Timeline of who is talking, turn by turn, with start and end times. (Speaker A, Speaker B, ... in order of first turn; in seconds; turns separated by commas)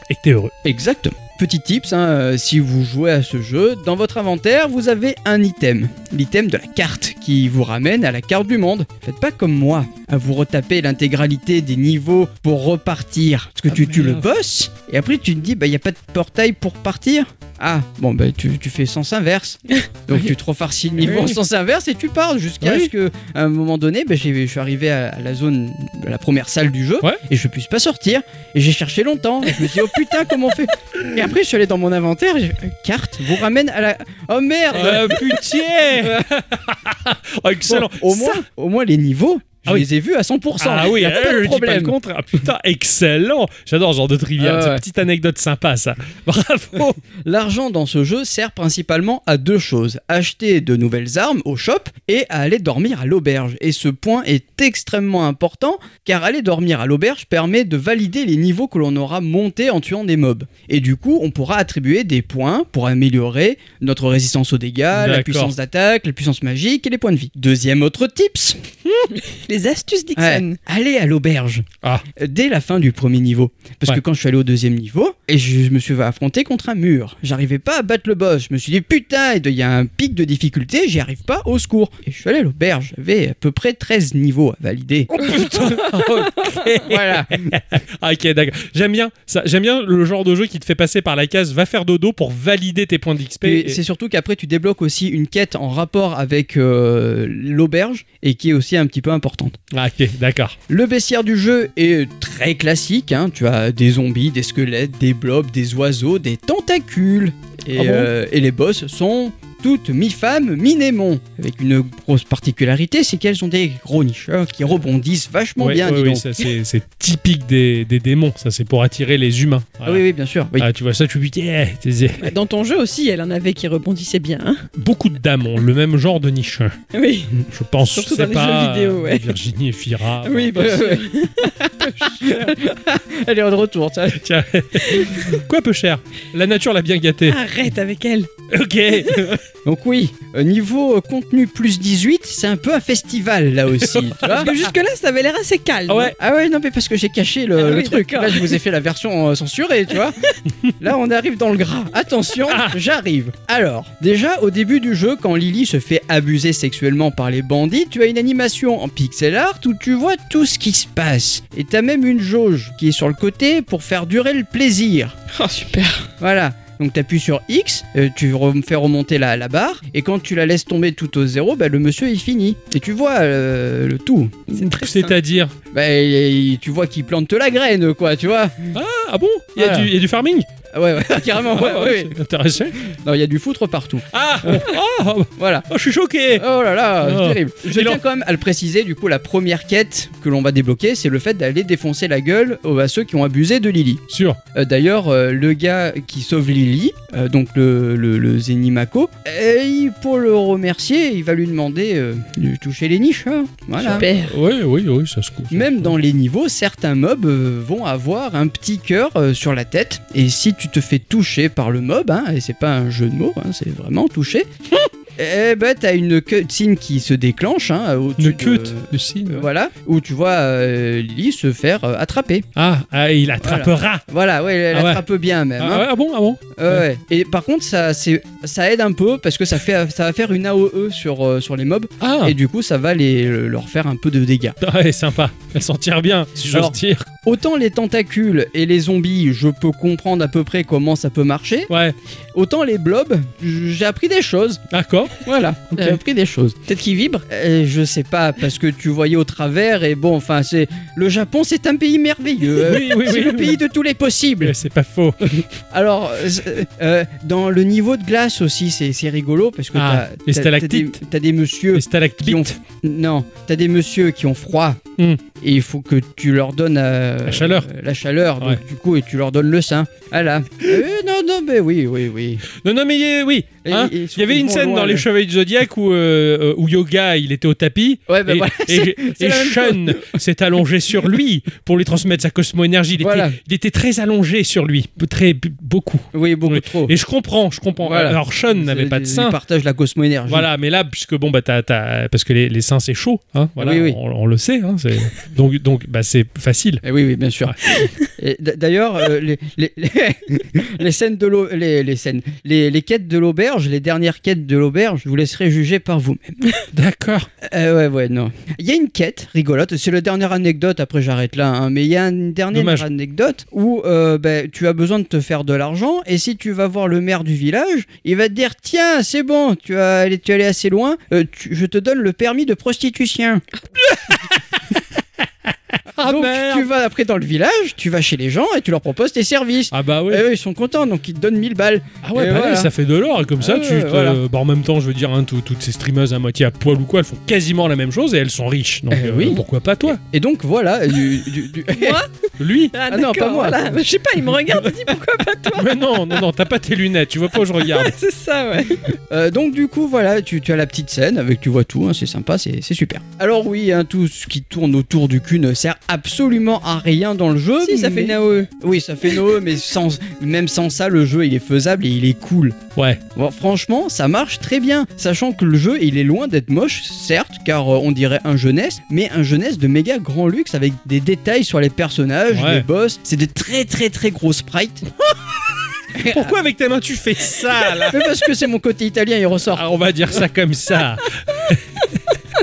Speaker A: 0.1-0.5, Speaker B: 0.6-36.3, Speaker A: 13.7-14.3, Speaker A: 21.0-21.4, Speaker A: 22.6-22.9, Speaker A: 34.7-38.5, Speaker B: 37.7-42.0, Speaker A: 40.6-47.0, Speaker B: 44.4-44.8, Speaker B: 47.2-68.6, Speaker A: 64.9-65.5, Speaker C: 69.2-70.6, Speaker B: 70.2-85.1, Speaker A: 85.1-93.8, Speaker B: 86.8-87.5, Speaker B: 93.4-99.6, Speaker A: 99.7-100.6, Speaker B: 100.7-116.3, Speaker A: 107.7-108.1, Speaker A: 115.6-120.0, Speaker B: 119.8-120.7, Speaker A: 120.6-122.3, Speaker C: 122.2-124.7, Speaker A: 124.8-126.8, Speaker C: 126.9-129.3, Speaker A: 127.5-130.8, Speaker C: 130.2-132.6, Speaker B: 130.6-134.2, Speaker A: 134.1-137.4, Speaker C: 134.8-135.3, Speaker C: 137.3-138.3, Speaker A: 138.5-139.3, Speaker C: 139.0-139.3, Speaker B: 139.7-144.5, Speaker A: 143.8-144.6, Speaker C: 144.2-146.2, Speaker A: 145.9-146.2, Speaker B: 146.2-150.2, Speaker C: 147.6-148.6, Speaker B: 150.8-165.2, Speaker A: 152.5-152.8, Speaker C: 165.3-166.1, Speaker B: 166.2-174.5, Speaker C: 174.5-175.2, Speaker A: 174.5-175.6, Speaker B: 175.7-178.8, Speaker A: 178.7-180.5, Speaker B: 179.6-179.9, Speaker B: 180.7-182.2, Speaker A: 181.1-182.8, Speaker B: 182.8-184.7, Speaker A: 184.1-186.5, Speaker B: 185.4-185.7, Speaker B: 186.3-194.0, Speaker A: 187.0-188.0, Speaker A: 194.1-194.4, Speaker B: 194.6-204.1, Speaker A: 203.8-205.9, Speaker C: 203.8-204.3, Speaker B: 205.5-214.5, Speaker B: 215.2-222.5, Speaker A: 218.2-219.5, Speaker A: 222.6-224.1, Speaker B: 223.4-225.9, Speaker A: 224.7-225.0, Speaker A: 225.6-226.8, Speaker B: 226.6-234.6, Speaker A: 232.0-232.4, Speaker A: 234.6-237.1, Speaker B: 236.5-241.7, Speaker A: 241.7-242.0, Speaker B: 242.3-244.6, Speaker A: 244.7-245.2, Speaker B: 245.2-246.6, Speaker C: 246.7-247.2, Speaker B: 247.3-254.6, Speaker A: 252.6-253.6, Speaker A: 254.4-255.3, Speaker B: 255.2-264.8, Speaker A: 259.7-261.0, Speaker A: 261.7-262.6, Speaker B: 265.4-272.5, Speaker A: 267.3-267.7, Speaker A: 272.6-289.4, Speaker B: 273.6-275.1, Speaker B: 278.1-280.1, Speaker B: 283.0-283.4, Speaker B: 286.1-286.9, Speaker B: 287.8-290.5, Speaker A: 290.3-296.8, Speaker B: 293.6-294.0, Speaker B: 296.8-306.6, Speaker A: 306.6-307.3, Speaker B: 307.4-323.4, Speaker A: 312.5-312.9, Speaker A: 323.8-324.6, Speaker A: 325.9-326.7, Speaker B: 326.0-332.7, Speaker A: 329.7-330.3, Speaker A: 332.0-340.0, Speaker B: 333.4-334.2, Speaker B: 338.9-342.0, Speaker C: 341.7-342.1, Speaker A: 342.4-342.7, Speaker C: 342.7-346.1, Speaker B: 342.9-343.7, Speaker A: 345.5-347.9, Speaker C: 347.5-348.9, Speaker B: 349.1-362.6, Speaker C: 357.6-358.5, Speaker B: 363.2-374.9, Speaker A: 372.3-372.7, Speaker B: 375.9-376.4, Speaker A: 376.1-378.1, Speaker B: 377.8-379.7, Speaker A: 379.5-381.8